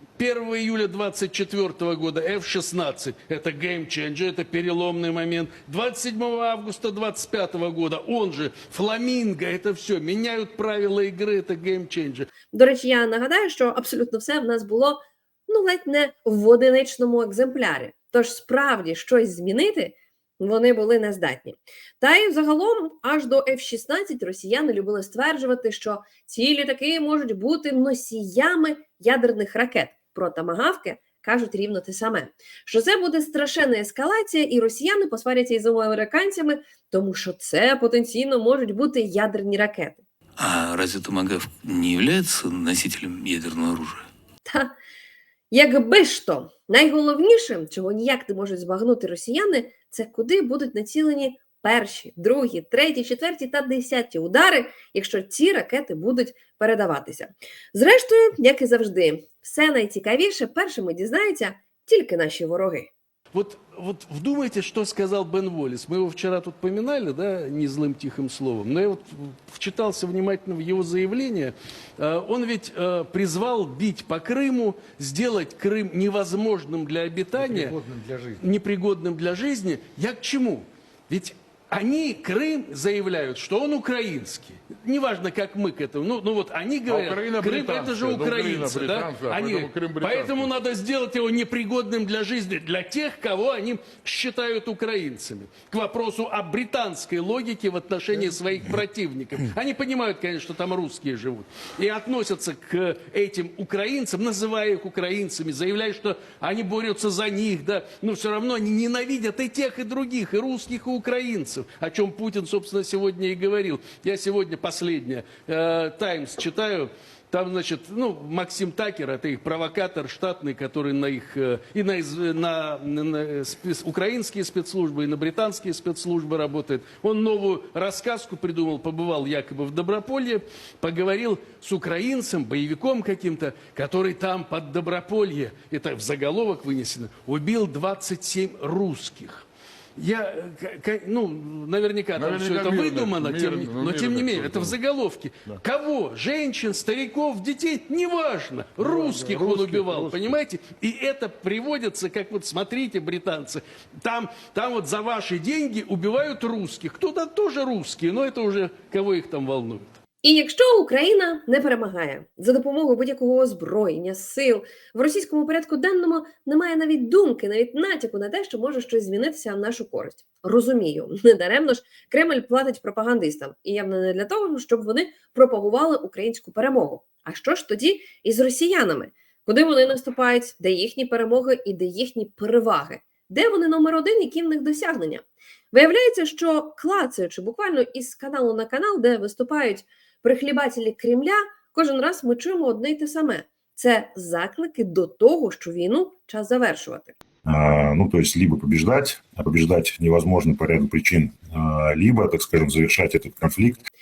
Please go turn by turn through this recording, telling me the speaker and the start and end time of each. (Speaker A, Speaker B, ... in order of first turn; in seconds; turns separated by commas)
Speaker A: 0.2-12.3, Speaker B: 12.5-40.0, Speaker C: 40.4-43.8, Speaker B: 44.5-44.7, Speaker B: 45.5-62.9, Speaker A: 63.3-77.8, Speaker D: 77.4-78.4, Speaker A: 78.4-160.0, Speaker D: 86.9-90.5, Speaker D: 142.2-144.8, Speaker D: 148.8-150.4, Speaker B: 160.2-197.2, Speaker E: 197.4-203.8